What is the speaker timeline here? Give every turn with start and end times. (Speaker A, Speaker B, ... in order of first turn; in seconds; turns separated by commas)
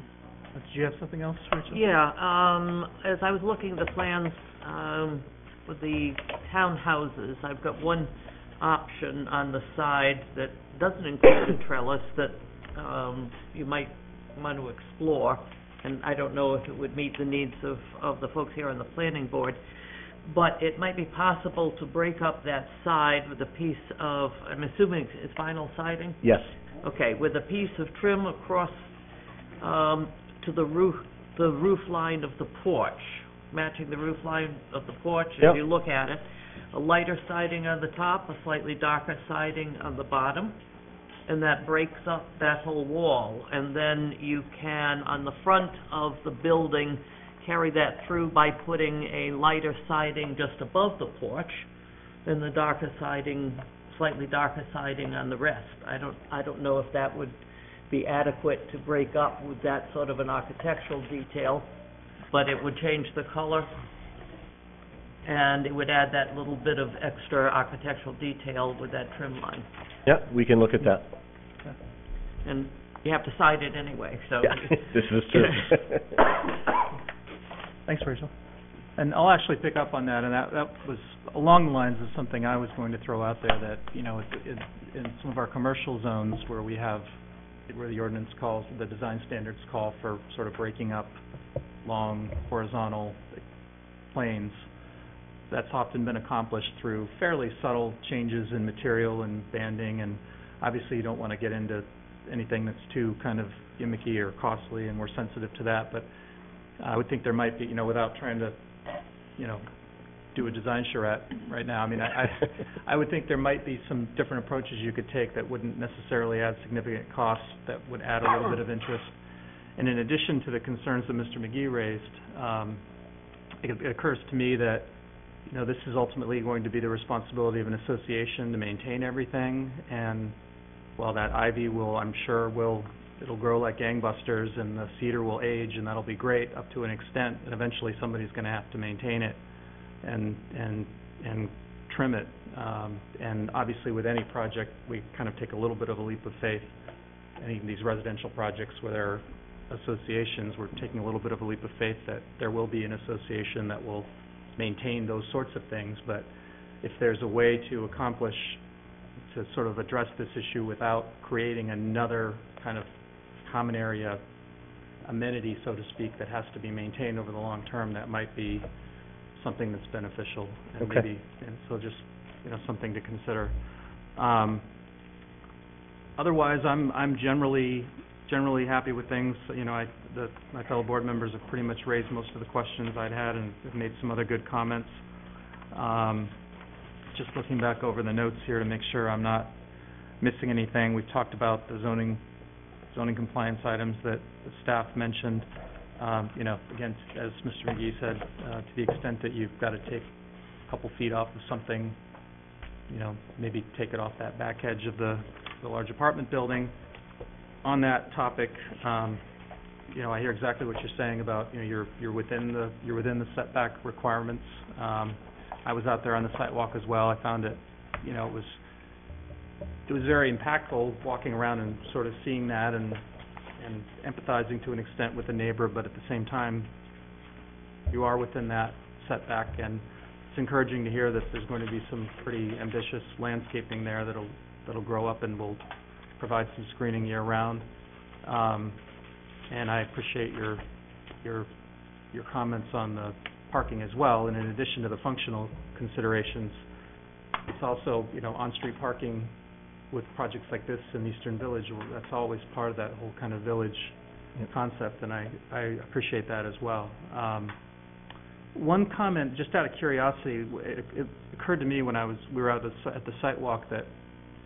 Speaker A: 0.6-1.8, Speaker B: 1.7-19.6, Speaker B: 20.3-26.2, Speaker C: 26.2-26.5, Speaker B: 26.8-28.9, Speaker B: 29.6-40.6, Speaker B: 41.3-51.7, Speaker B: 52.3-61.7, Speaker B: 62.3-63.7, Speaker B: 65.2-69.7, Speaker C: 70.1-71.1, Speaker B: 72.5-74.8, Speaker C: 74.5-76.1, Speaker A: 77.9-78.3, Speaker A: 79.0-87.2, Speaker A: 87.7-91.2, Speaker A: 91.8-93.4, Speaker A: 94.1-94.7, Speaker A: 95.5-106.1, Speaker A: 106.8-108.6, Speaker A: 109.4-109.7, Speaker A: 110.3-119.2, Speaker A: 119.8-122.8, Speaker A: 123.6-124.9, Speaker A: 125.5-130.4, Speaker A: 131.0-139.4, Speaker A: 140.0-146.7, Speaker A: 147.4-156.3, Speaker A: 156.8-158.6, Speaker A: 159.2-164.2, Speaker A: 165.0-168.7, Speaker A: 169.3-173.6, Speaker C: 170.8-171.1, Speaker A: 174.2-174.7, Speaker A: 176.2-185.0, Speaker A: 185.7-186.3, Speaker A: 187.1-189.6, Speaker A: 190.2-192.2, Speaker A: 192.9-195.5, Speaker A: 196.0-200.1, Speaker A: 200.7-202.0, Speaker A: 202.9-206.7, Speaker A: 207.6-209.2, Speaker A: 209.9-218.6, Speaker A: 219.9-223.0, Speaker A: 223.6-226.7, Speaker A: 227.9-235.7, Speaker A: 236.2-237.7, Speaker A: 238.2-238.8, Speaker A: 239.5-240.6, Speaker A: 241.2-241.5, Speaker A: 242.1-246.7, Speaker A: 247.5-249.3, Speaker A: 249.9-257.6, Speaker A: 258.5-263.9